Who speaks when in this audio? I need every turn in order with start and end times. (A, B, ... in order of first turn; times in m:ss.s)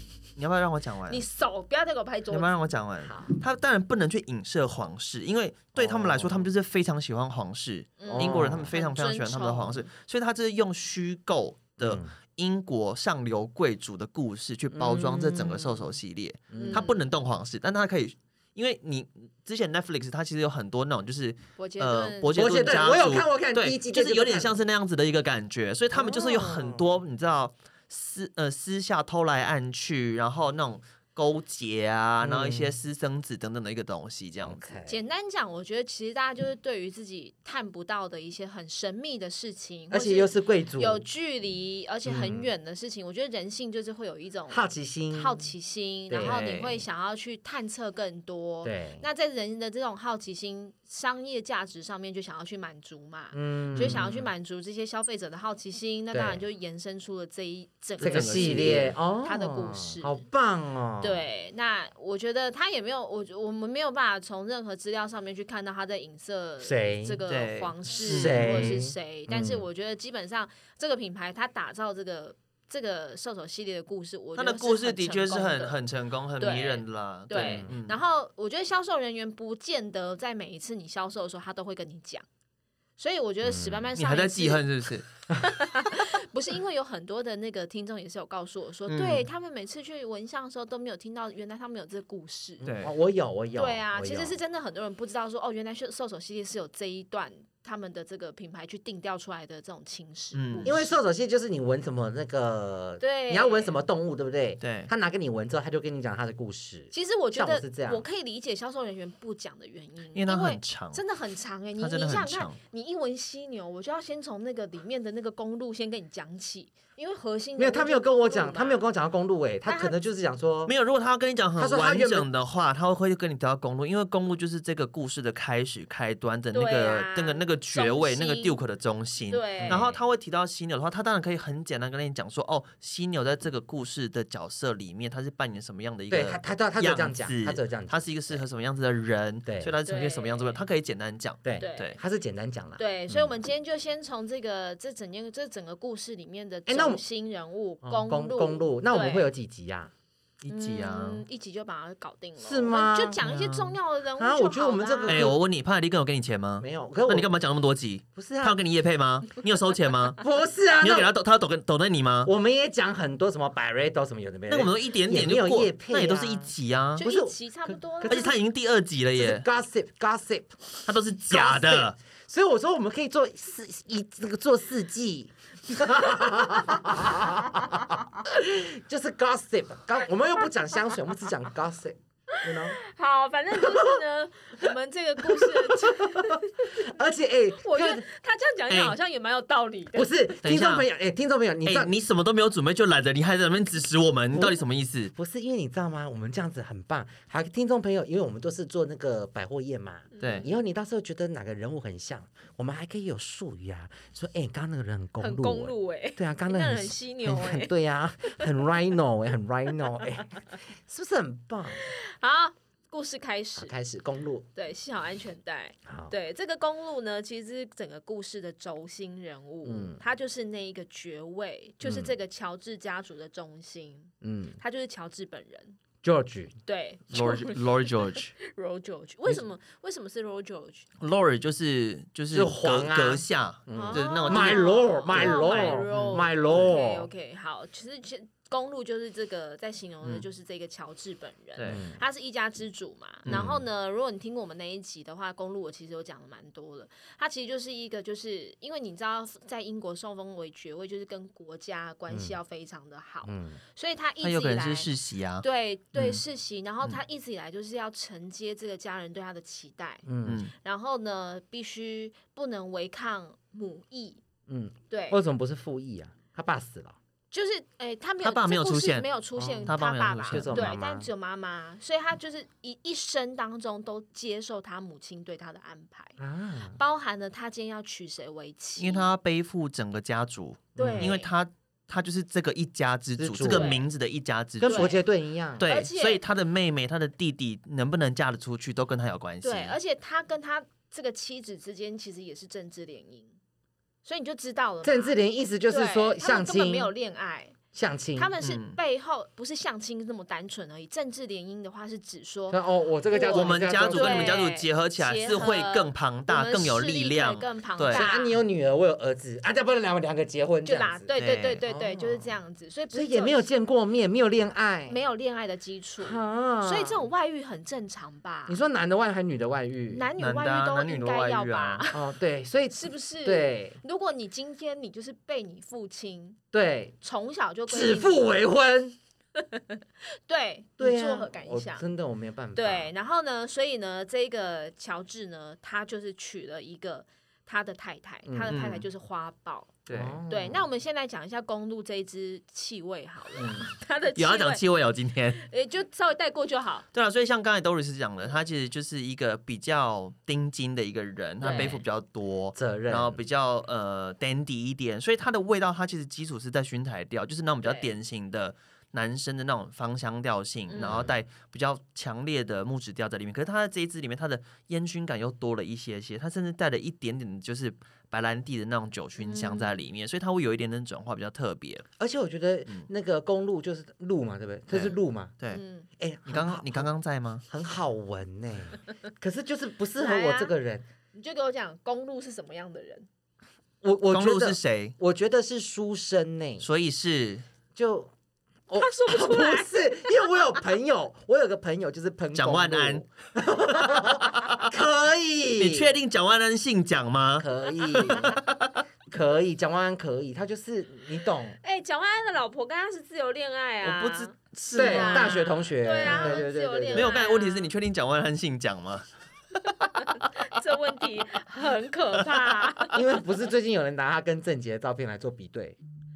0:00.4-0:01.2 A
0:01.1-0:02.6 B
0:02.3-0:34.7 A
0:03.0-0:03.3 C
0:05.8-0:06.5 C
0:08.0-0:09.9 B
0:08.1-0:08.7 C
0:11.8-0:12.1 C
0:14.7-0:15.9 C
0:16.5-0:16.8 C
0:16.6-0:17.0 B
0:21.6-0:23.0 B
0:22.3-0:24.6 C
0:25.9-0:26.9 C
0:32.2-0:32.8 C
0:34.4-0:35.0 C
0:34.9-1:00.2 B
0:39.9-0:41.0 C
0:42.0-0:42.5 C
0:44.5-0:45.5 C
0:46.1-0:46.4 C
0:46.2-0:46.8 A
0:48.6-0:49.0 C
0:53.3-0:54.3 C
0:56.1-0:56.4 C
0:58.0-0:58.9 A
0:58.0-1:01.2 C
1:01.0-1:15.8 B
1:06.6-1:07.2 C
1:07.3-1:08.8 A
1:08.0-1:09.7 C
1:14.4-1:18.0 A
1:16.4-1:22.2 B
1:17.3-1:17.7 C
1:23.0-1:24.6 B
1:23.4-1:23.9 C
1:24.0-1:25.1 A
1:25.4-1:32.6 B
1:28.9-1:29.2 A
1:32.6-1:34.4 C
1:32.6-1:32.9 A
1:33.6-1:40.8 B
1:40.3-1:40.8 A
1:40.6-1:48.0 C
1:43.0-1:43.8 B
1:44.6-1:44.9 A
1:46.9-1:58.8 B
1:50.1-1:51.0 A
1:51.8-1:52.6 A
1:57.6-2:00.7 C
1:59.7-2:00.0 B
2:00.7-2:22.0 A
2:01.6-2:02.3 C
2:06.5-2:08.6 B
2:09.3-2:10.0 B
2:09.6-2:10.0 C
2:16.1-2:18.4 C
2:19.5-2:19.7 C
2:19.8-2:20.6 B
2:21.4-2:23.3 C
2:21.6-2:22.0 B
2:22.8-2:29.3 B
2:26.7-2:27.0 C
2:27.8-2:29.9 C
2:30.4-2:31.2 A
2:30.5-2:35.3 B
2:32.4-2:33.3 C
2:33.2-2:33.7 A
2:34.2-2:35.4 C
2:35.1-2:40.2 A
2:36.6-2:37.3 C
2:38.2-2:38.6 C
2:40.2-2:41.1 C
2:40.8-2:42.3 A
2:42.2-2:48.4 C
2:44.5-2:47.0 A
2:47.0-2:48.4 B
2:48.0-2:49.4 A
2:49.2-2:50.6 C
2:50.8-2:52.0 A
2:51.3-3:02.8 C
3:02.3-3:06.9 B
3:03.5-3:04.0 C
3:05.2-3:08.0 C
3:07.5-3:10.1 B
3:08.7-3:09.0 A
3:09.9-3:11.9 C
3:10.4-3:10.9 A
3:11.6-3:15.1 A
3:14.3-3:14.6 C
3:15.2-3:31.9 C
3:20.1-3:20.5 B
3:20.2-3:20.4 A
3:25.2-3:28.5 B
3:31.8-3:33.7 B
3:33.6-3:34.5 C
3:34.6-3:45.8 B
3:35.9-3:36.1 C
3:39.6-3:40.0 C
3:41.8-3:42.1 C
3:44.2-3:44.6 C
3:46.0-3:46.6 C
3:46.7-3:50.9 B
3:47.1-3:48.4 A
3:51.0-3:56.7 A
3:52.3-3:57.1 C
3:53.7-4:14.9 B
4:01.7-4:02.0 C
4:03.3-4:03.6 A
4:03.3-4:03.6 C
4:12.1-4:12.4 C
4:13.2-4:13.6 C
4:14.2-4:15.4 A
4:15.4-4:20.0 B
4:16.0-4:16.2 A
4:20.1-4:20.4 C
4:20.2-4:20.5 A
4:20.6-4:24.2 B
4:24.5-4:27.0 C
4:24.9-4:25.2 B
4:27.3-4:36.2 B
4:28.2-4:29.1 A
4:29.4-4:29.7 C
4:29.6-4:30.7 A
4:30.3-4:31.1 C
4:36.2-4:36.8 C
4:36.8-4:39.1 B
4:38.8-4:45.0 A
4:40.8-4:41.2 C
4:40.8-4:41.3 B
4:43.2-4:43.8 C
4:43.4-4:43.8 B
4:44.6-4:45.7 C
4:44.6-4:45.0 B
4:45.6-4:46.2 B
4:45.6-4:49.8 A
4:49.4-4:53.4 B
4:54.0-4:57.6 B
4:54.8-4:56.9 C
4:57.7-4:58.3 C
4:58.2-5:08.4 B
4:58.4-4:58.8 A
5:02.5-5:04.4 C
5:03.3-5:08.1 A
5:07.9-5:11.1 C
5:10.6-5:13.5 B
5:11.2-5:11.6 A
5:11.6-5:12.3 C
5:12.9-5:15.0 C
5:14.9-5:18.6 B
5:16.0-5:17.0 C
5:18.5-5:20.1 C
5:19.9-5:22.1 B
5:20.2-5:21.8 A
5:21.9-5:23.8 C
5:22.7-5:26.4 B
5:26.5-5:27.0 C
5:27.0-5:28.3 B
5:27.7-5:29.0 C
5:29.4-5:31.9 B
5:30.8-5:32.9 C
5:32.6-5:44.6 B
5:38.3-5:38.5 C
5:38.5-5:38.9 A
5:39.9-5:40.2 A
5:39.9-5:40.6 C
5:43.4-5:43.7 C
5:44.2-5:45.4 A
5:45.3-5:46.8 B
5:46.9-6:11.8 A
5:51.4-5:51.8 B
5:52.6-5:53.2 C
5:57.6-5:57.9 B
6:00.7-6:01.1 B
6:09.2-6:09.8 B
6:12.0-6:15.3 C
6:14.7-6:15.6 A
6:15.5-6:15.9 B
6:16.0-6:16.9 C
6:16.3-6:17.4 A
6:17.5-6:20.8 C
6:20.0-6:20.5 B
6:21.1-6:23.1 B
6:23.8-6:26.7 C
6:24.1-6:25.0 A
6:26.6-6:27.4 A
6:27.8-6:28.1 C
6:28.7-6:35.9 C
6:28.8-6:30.3 B
6:32.3-6:33.1 A
6:35.6-6:38.6 A
6:37.4-6:38.4 C
6:39.1-6:41.6 C
6:41.6-6:47.7 B
6:43.8-6:45.4 A
6:44.7-6:47.2 C
6:46.0-6:49.1 A
6:49.8-6:53.0 B
6:52.9-6:55.8 C